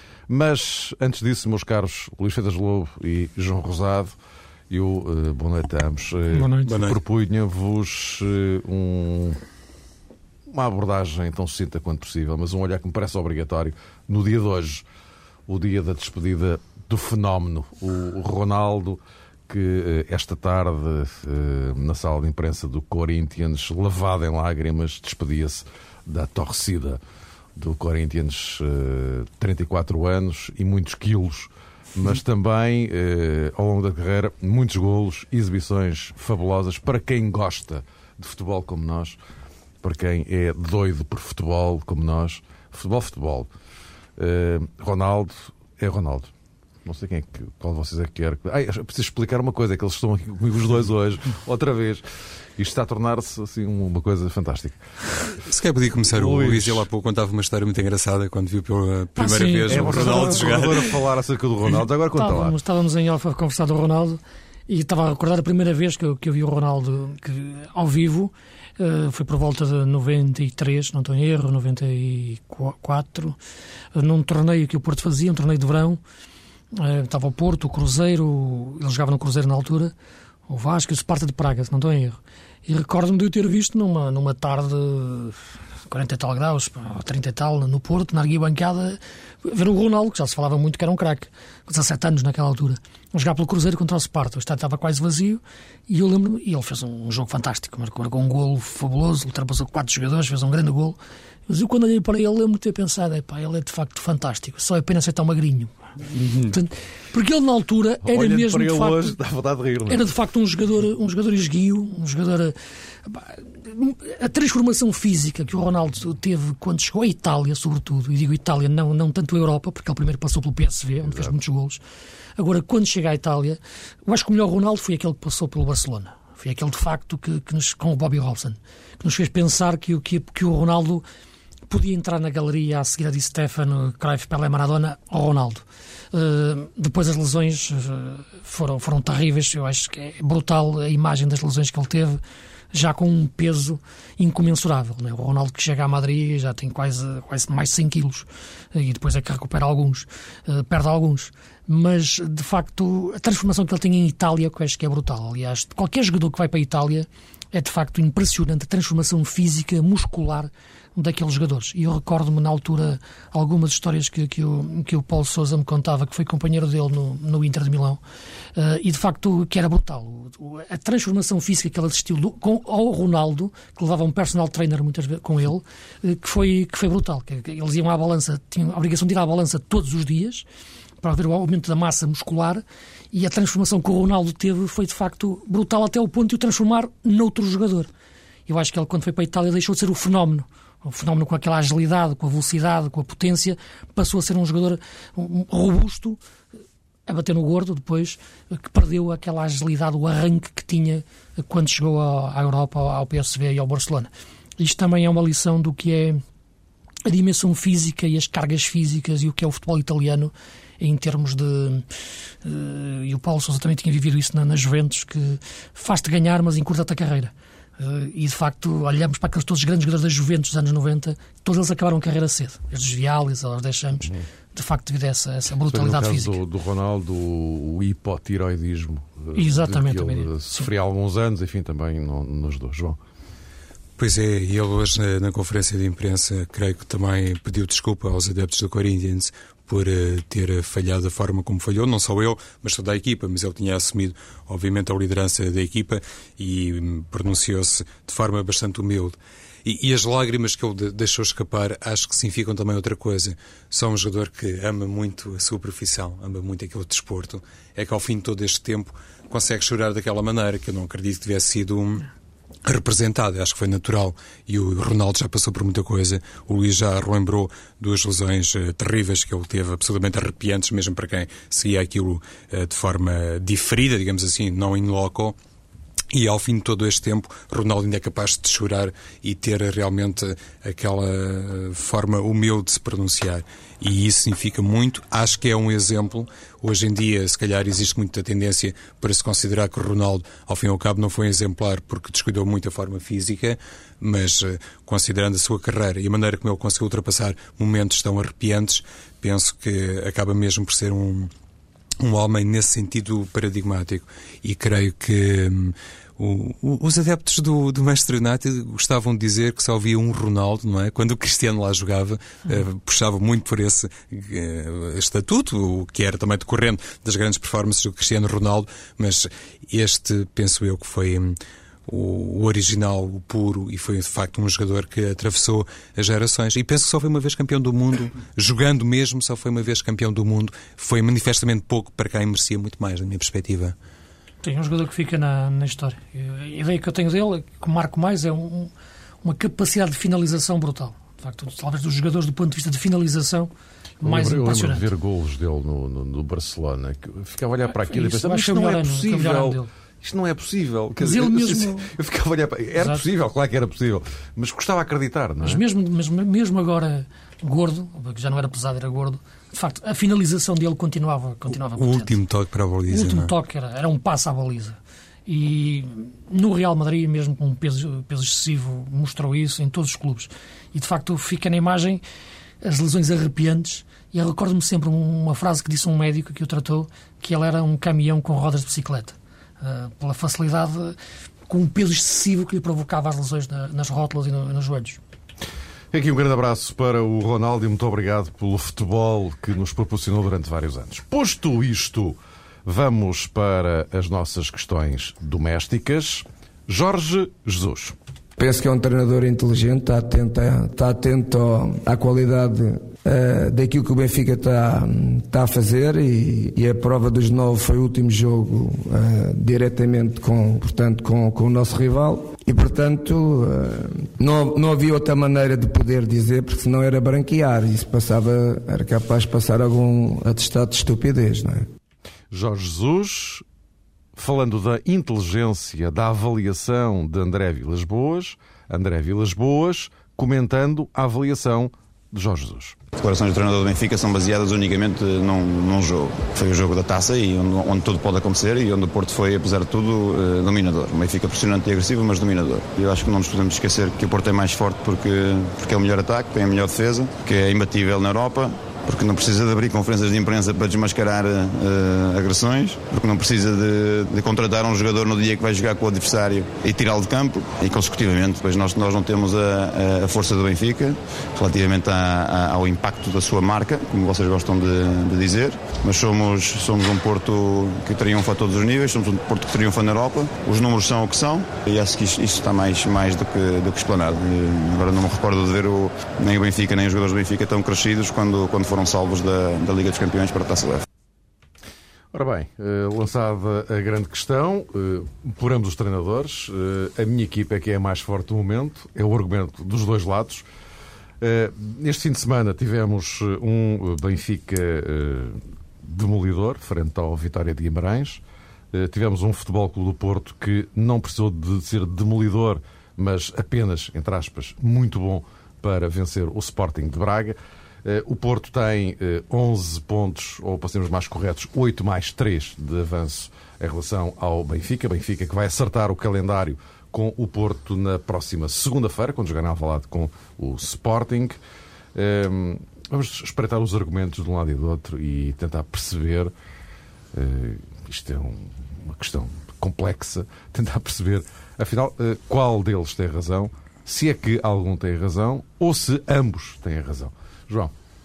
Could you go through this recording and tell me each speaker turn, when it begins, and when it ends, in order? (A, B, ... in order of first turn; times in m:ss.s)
0:00.3-0:04.1 A
0:04.7-0:09.4 A
0:06.3-0:06.8 B
0:06.7-0:07.0 C
0:10.5-0:14.8 A
0:15.5-0:27.0 A
0:27.6-0:39.2 A
0:39.8-0:43.5 A
0:44.2-0:46.3 A
0:46.8-0:52.0 A
0:52.6-0:55.3 A
0:55.3-1:00.9 C
0:56.1-0:56.9 A
0:59.2-1:00.6 B
0:59.7-1:02.5 A
1:02.1-1:13.4 B
1:13.9-1:16.0 B
1:16.7-1:19.9 B
1:20.5-1:25.4 B
1:25.9-1:45.7 B
1:46.5-1:49.1 B
1:48.0-1:50.1 A
1:49.9-2:01.8 B
2:02.4-2:11.0 B
2:11.7-2:22.2 B
2:22.7-2:48.0 B
2:48.5-3:00.4 B
3:01.0-3:07.9 B
3:08.5-3:16.2 B
3:17.1-3:26.2 B
3:27.0-3:31.8 B
3:32.4-3:46.4 B
3:45.7-3:53.0 A
3:49.3-3:50.7 B
3:54.0-4:22.1 C
4:22.6-4:35.4 C
4:36.1-5:01.3 C
5:02.0-5:33.7 C
5:34.4-5:38.7 B
5:39.2-5:44.9 B
5:44.0-5:55.6 A
5:47.8-5:49.7 B
5:51.0-5:51.9 B
5:55.4-6:02.2 B
6:01.7-6:03.3 C
6:02.9-6:12.0 B
6:12.6-6:21.0 B
6:21.5-6:25.0 B
6:25.9-6:38.0 A
6:38.4-7:01.7 D
7:02.3-7:03.4 A
7:04.2-7:12.8 A
7:13.0-8:00.8 E
8:02.1-8:10.4 A
8:11.2-8:41.4 A
8:41.9-8:46.3 A
8:47.1-8:57.7 A